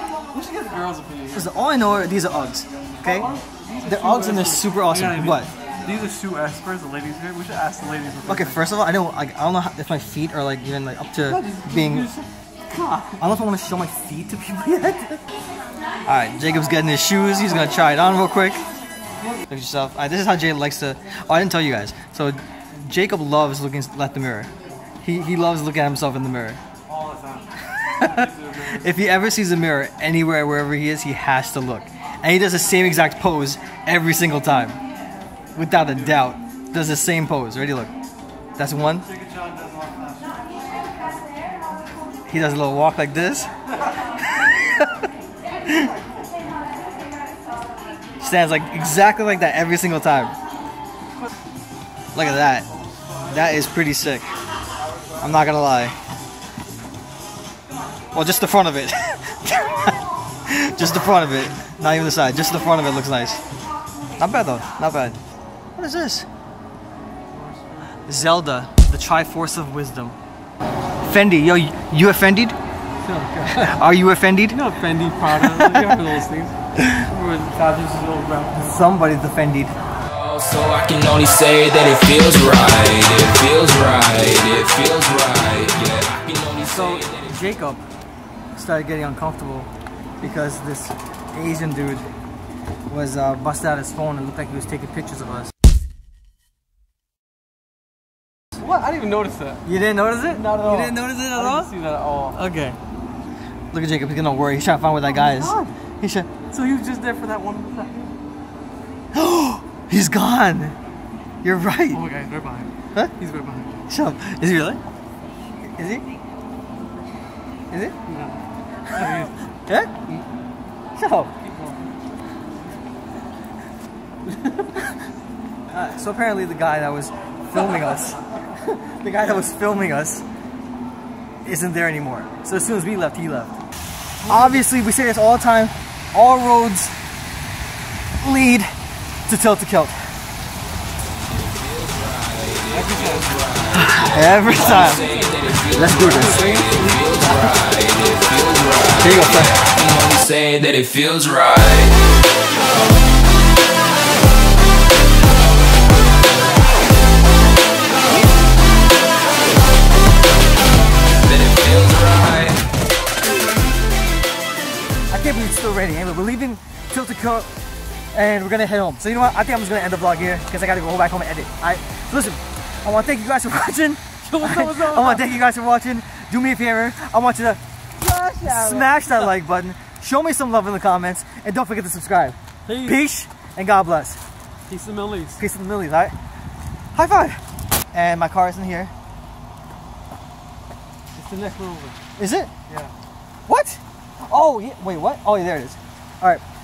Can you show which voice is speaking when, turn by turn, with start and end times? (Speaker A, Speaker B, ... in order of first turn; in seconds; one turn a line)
Speaker A: 0.3-1.5
Speaker B: 1.3-3.3
Speaker A: 3.0-8.6
Speaker B: 3.8-5.5
Speaker B: 8.3-12.1
Speaker A: 11.2-13.3
Speaker B: 13.2-15.2
Speaker B: 16.1-18.6
Speaker B: 19.5-24.5
Speaker B: 25.0-26.6
Speaker A: 26.9-29.0
Speaker B: 27.7-34.8
Speaker B: 35.5-37.9
Speaker A: 35.8-36.3
Speaker B: 38.6-39.1
Speaker A: 38.9-40.5
Speaker B: 42.3-43.5
Speaker B: 44.3-44.9
Speaker A: 45.7-46.3
Speaker B: 48.2-50.3
Speaker B: 52.1-52.7
Speaker B: 53.2-54.3
Speaker B: 55.2-55.9
Speaker B: 58.1-63.4
Speaker B: 64.2-65.2
Speaker B: 65.8-66.2
Speaker A: 67.3-68.3
Speaker B: 68.1-70.2
Speaker B: 71.0-72.5
Speaker A: 73.0-73.8
Speaker B: 73.5-74.6
Speaker A: 74.5-78.8
Speaker B: 75.3-75.9
Speaker B: 78.5-79.7
Speaker C: 80.0-87.3
Speaker B: 86.6-87.8
Speaker B: 88.5-92.1
Speaker B: 92.9-95.5
Speaker A: 98.6-99.6
Speaker B: 99.6-101.7
Speaker A: 100.2-102.4
Speaker B: 102.3-102.8
Speaker B: 103.7-106.3
Speaker A: 105.1-105.7
Speaker A: 106.5-108.1
Speaker B: 109.1-110.7
Speaker B: 111.4-112.0
Speaker A: 111.9-113.9
Speaker B: 113.9-114.8
Speaker B: 115.7-116.0
Speaker B: 117.7-118.0
Speaker A: 118.1-119.3
Speaker B: 118.9-119.9
Speaker B: 121.0-121.3
Speaker A: 121.4-121.9
Speaker A: 124.3-124.8
Speaker B: 125.7-130.2
Speaker A: 129.2-129.5
Speaker B: 131.4-133.5
Speaker A: 134.2-134.6
Speaker B: 134.2-136.9
Speaker B: 138.2-138.7
Speaker B: 139.3-140.0
Speaker C: 141.3-152.0
Speaker A: 142.7-143.4
Speaker B: 143.7-145.1
Speaker A: 144.4-147.4
Speaker B: 145.7-146.7
Speaker B: 149.0-149.5
Speaker C: 161.2-162.6
Speaker B: 165.1-167.5
Speaker B: 168.1-177.6
Speaker A: 174.2-175.4
Speaker A: 178.0-179.3
Speaker B: 178.4-184.2
Speaker A: 182.7-183.0
Speaker A: 184.7-185.4
Speaker B: 185.4-186.1
Speaker B: 186.9-187.4
Speaker B: 187.9-188.9
Speaker A: 191.1-192.0
Speaker B: 192.2-192.5
Speaker A: 192.7-192.9
Speaker B: 193.5-196.4